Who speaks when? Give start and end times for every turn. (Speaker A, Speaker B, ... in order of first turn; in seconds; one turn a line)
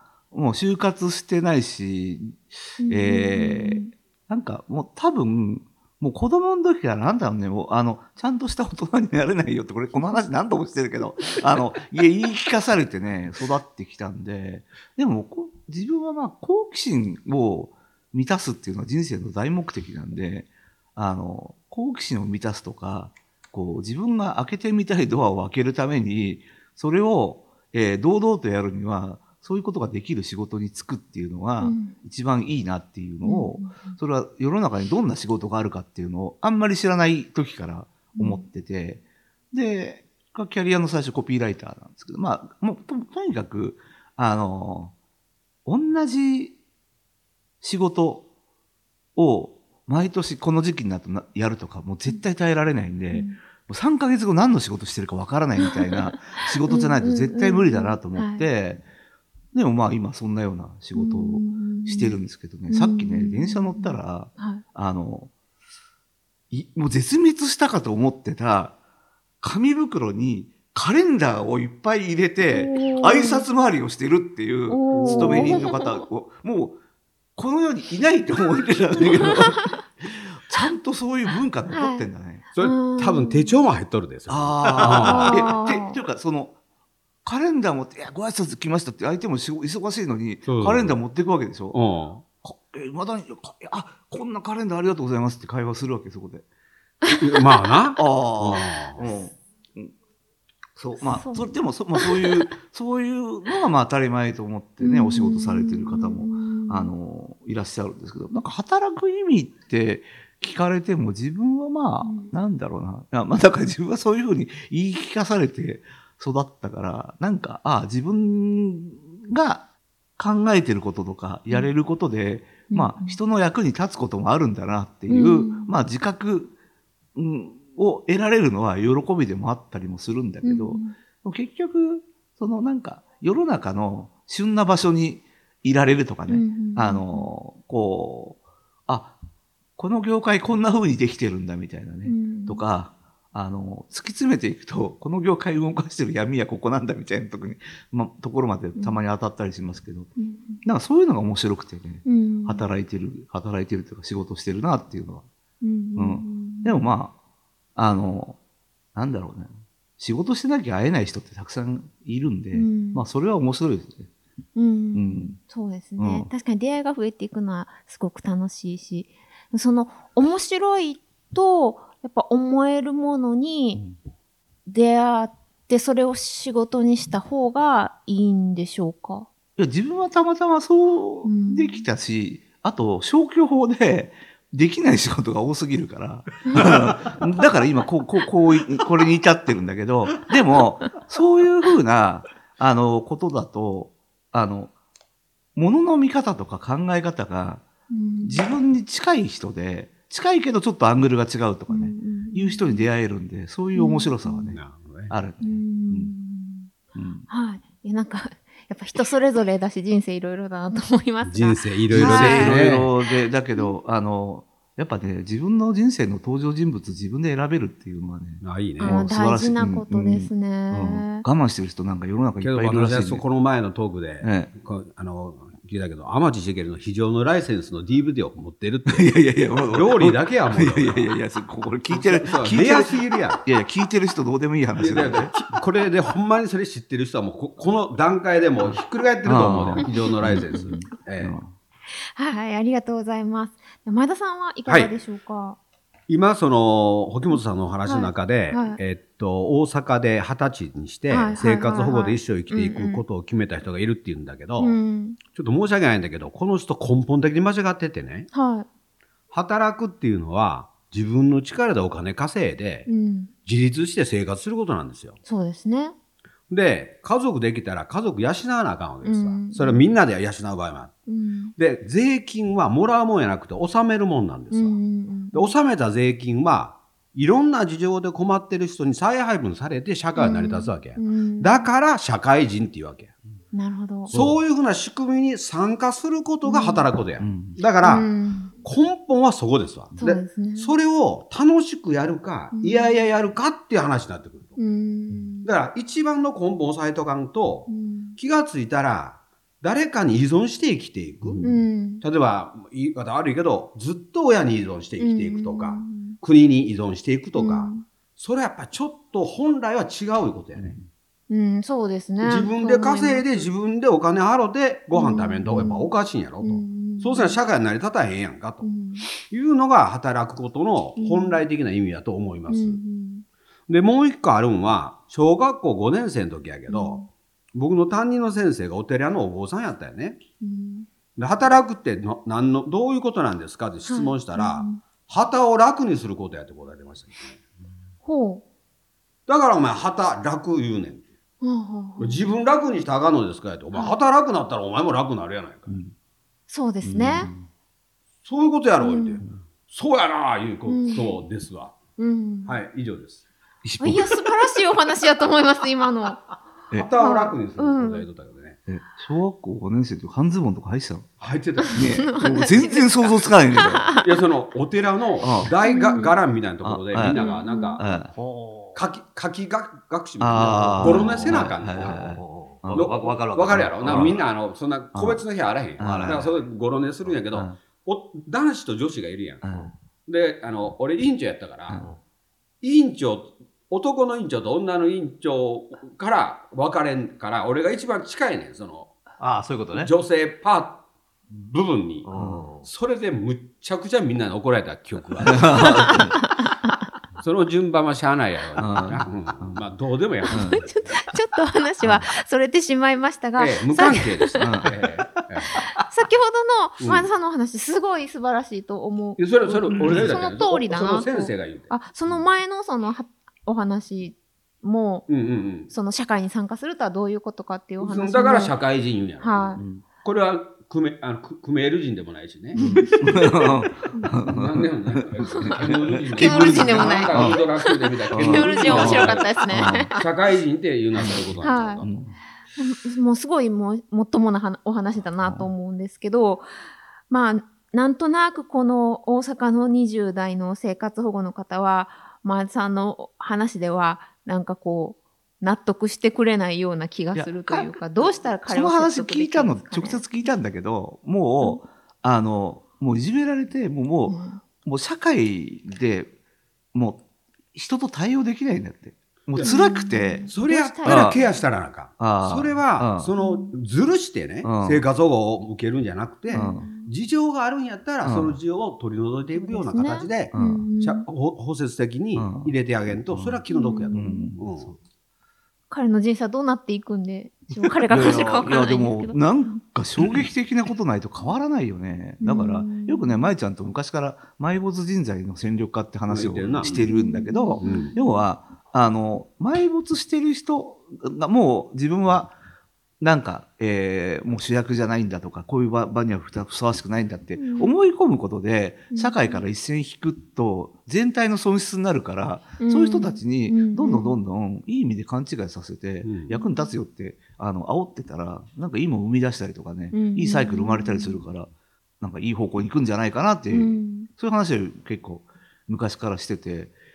Speaker A: 0.3-44.9
Speaker B: 2.8-3.9
Speaker B: 9.9-10.2
Speaker B: 31.6-31.9
Speaker B: 33.2-34.0
Speaker B: 38.1-38.4
Speaker A: 45.6-46.5
Speaker A: 47.6-48.2
Speaker A: 49.1-58.8
Speaker B: 53.1-53.4
Speaker B: 56.7-58.5
Speaker A: 59.5-65.3
Speaker B: 60.9-62.2
Speaker B: 62.7-64.6
Speaker A: 66.5-68.8
Speaker A: 69.4-76.8
Speaker B: 72.5-73.5
Speaker B: 74.7-75.9
Speaker C: 74.9-75.7
Speaker A: 77.3-82.4
Speaker B: 81.7-82.0
Speaker C: 82.5-85.5
Speaker B: 82.6-83.5
Speaker A: 84.3-86.5
Speaker B: 85.0-86.0
Speaker A: 87.2-91.8
Speaker C: 90.5-90.9
Speaker C: 91.7-92.2
Speaker A: 92.4-96.4
Speaker C: 97.1-99.0
Speaker A: 98.0-99.9
Speaker A: 100.8-119.7
Speaker B: 101.0-102.3
Speaker B: 104.8-106.9
Speaker B: 112.0-112.3
Speaker A: 120.2-126.5
Speaker B: 122.7-123.2
Speaker B: 125.1-125.7
Speaker A: 127.1-139.2
Speaker B: 130.4-130.9
Speaker B: 136.3-137.3
Speaker A: 139.8-155.2
Speaker B: 142.1-142.6
Speaker B: 150.2-150.6
Speaker B: 152.0-152.6
Speaker B: 155.6-156.8
Speaker A: 155.9-157.1
Speaker A: 157.8-158.4
Speaker A: 158.9-164.1
Speaker B: 162.5-163.0
Speaker B: 164.6-173.8
Speaker A: 164.9-165.4
Speaker A: 166.0-166.3
Speaker B: 174.7-179.3
Speaker A: 179.6-194.7
Speaker B: 181.2-181.8
Speaker B: 186.4-186.7
Speaker A: 195.6-197.6
Speaker B: 197.9-198.4
Speaker A: 198.2-206.1
Speaker B: 201.7-202.9
Speaker B: 203.7-204.6
Speaker C: 204.5-205.1
Speaker B: 205.4-206.7
Speaker A: 206.9-207.2
Speaker B: 207.3-212.6
Speaker C: 211.2-212.9
Speaker A: 211.9-223.2
Speaker C: 218.4-219.0
Speaker B: 218.8-221.2
Speaker C: 222.4-231.1
Speaker A: 224.2-224.5
Speaker A: 228.9-235.3
Speaker C: 231.9-233.4
Speaker C: 234.8-241.4
Speaker A: 238.7-241.5
Speaker B: 240.4-240.9
Speaker B: 242.2-245.6
Speaker C: 244.7-244.9
Speaker C: 246.1-254.8
Speaker B: 247.3-248.8
Speaker B: 251.1-253.0
Speaker B: 254.6-255.2
Speaker C: 255.3-258.3
Speaker B: 258.3-258.7
Speaker C: 259.3-262.9
Speaker B: 262.9-263.3
Speaker C: 263.4-265.2
Speaker B: 265.2-265.9
Speaker C: 266.5-271.0
Speaker B: 269.0-269.9
Speaker B: 271.1-271.5
Speaker C: 271.6-274.8
Speaker B: 274.5-275.5
Speaker C: 275.3-283.1
Speaker B: 280.1-281.7
Speaker B: 283.5-284.1
Speaker C: 284.1-288.1
Speaker A: 284.1-284.4
Speaker B: 286.4-286.9
Speaker A: 287.2-287.6
Speaker B: 287.8-288.5
Speaker C: 288.6-294.6
Speaker B: 290.0-290.7
Speaker B: 292.5-293.1
Speaker B: 294.6-295.5
Speaker C: 295.4-301.4
Speaker B: 297.7-298.2
Speaker A: 301.2-301.6
Speaker B: 301.4-302.0
Speaker C: 302.0-310.8
Speaker B: 305.0-306.2
Speaker B: 307.3-307.8
Speaker A: 310.6-310.9
Speaker B: 311.3-313.5
Speaker C: 312.2-322.8
Speaker B: 314.9-315.9
Speaker B: 316.4-317.4
Speaker B: 318.6-319.1
Speaker B: 321.0-321.4
Speaker B: 322.5-323.2
Speaker C: 323.7-330.2
Speaker B: 326.7-327.1
Speaker B: 330.4-330.9
Speaker C: 331.2-337.4
Speaker B: 333.9-334.8
Speaker B: 338.0-338.4
Speaker C: 339.3-341.0
Speaker B: 341.4-342.3
Speaker C: 342.0-345.7
Speaker B: 343.7-344.0
Speaker A: 345.7-345.9
Speaker B: 346.5-347.3
Speaker A: 346.8-347.4
Speaker C: 348.2-351.8
Speaker B: 348.8-349.2
Speaker B: 350.7-351.2
Speaker B: 352.0-352.6
Speaker C: 352.4-353.2
Speaker A: 353.6-354.2
Speaker B: 353.8-356.2
Speaker C: 356.7-358.6
Speaker B: 357.0-358.1
Speaker A: 358.7-361.1
Speaker C: 361.2-362.1
Speaker A: 361.7-363.9
Speaker B: 361.8-364.0
Speaker C: 364.0-367.9
Speaker A: 365.2-365.5
Speaker B: 365.6-366.1
Speaker A: 366.6-368.1
Speaker B: 367.0-367.8
Speaker D: 368.1-368.8
Speaker C: 368.7-372.0
Speaker A: 370.2-372.9
Speaker D: 370.8-374.2
Speaker C: 372.7-379.5
Speaker A: 373.5-374.1
Speaker A: 374.9-375.2
Speaker A: 375.8-376.2
Speaker D: 375.8-376.4
Speaker A: 377.3-377.6
Speaker A: 379.4-379.7
Speaker C: 380.1-381.8
Speaker C: 382.6-388.9
Speaker D: 389.2-389.9
Speaker C: 389.7-392.1
Speaker D: 392.0-392.7
Speaker A: 392.1-392.5
Speaker C: 392.6-396.0
Speaker A: 395.2-396.1
Speaker B: 395.8-396.9
Speaker C: 397.2-401.0
Speaker A: 398.6-399.6
Speaker B: 400.3-404.7
Speaker A: 400.3-400.6
Speaker A: 401.8-402.1
Speaker C: 403.4-405.6
Speaker A: 404.4-404.7
Speaker B: 405.6-415.1
Speaker C: 406.8-407.1
Speaker C: 409.2-411.7
Speaker A: 409.7-410.2
Speaker C: 415.1-415.7
Speaker B: 415.7-418.5
Speaker C: 417.8-423.5
Speaker B: 419.2-419.6
Speaker B: 422.5-423.1
Speaker A: 422.6-427.4
Speaker C: 424.2-431.9
Speaker B: 425.2-425.5
Speaker B: 426.2-429.9
Speaker A: 428.1-429.9
Speaker A: 431.0-431.2
Speaker B: 431.4-431.9
Speaker A: 431.8-432.2
Speaker B: 432.6-436.5
Speaker A: 435.2-435.5
Speaker B: 437.1-450.0
Speaker A: 447.1-456.1
Speaker B: 454.1-454.4
Speaker A: 456.7-457.0
Speaker A: 457.5-460.3
Speaker C: 459.3-459.6
Speaker B: 459.4-461.4
Speaker C: 460.3-474.7
Speaker A: 460.8-461.2
Speaker A: 462.0-463.1
Speaker B: 463.2-463.5
Speaker A: 464.4-464.8
Speaker B: 466.3-466.9
Speaker A: 466.3-466.7
Speaker A: 468.0-468.4
Speaker B: 469.3-471.1
Speaker A: 470.3-470.7
Speaker A: 472.1-472.6
Speaker A: 473.1-473.4
Speaker B: 473.5-474.3
Speaker A: 473.9-474.7
Speaker B: 475.7-479.6
Speaker A: 477.9-492.3
Speaker B: 482.2-483.3
Speaker C: 486.1-486.9
Speaker B: 486.8-488.2
Speaker C: 487.6-487.9
Speaker A: 493.0-516.7
Speaker B: 497.4-497.7
Speaker B: 498.9-499.3
Speaker B: 502.6-504.1
Speaker C: 506.0-506.4
Speaker B: 509.9-511.2
Speaker B: 513.5-514.1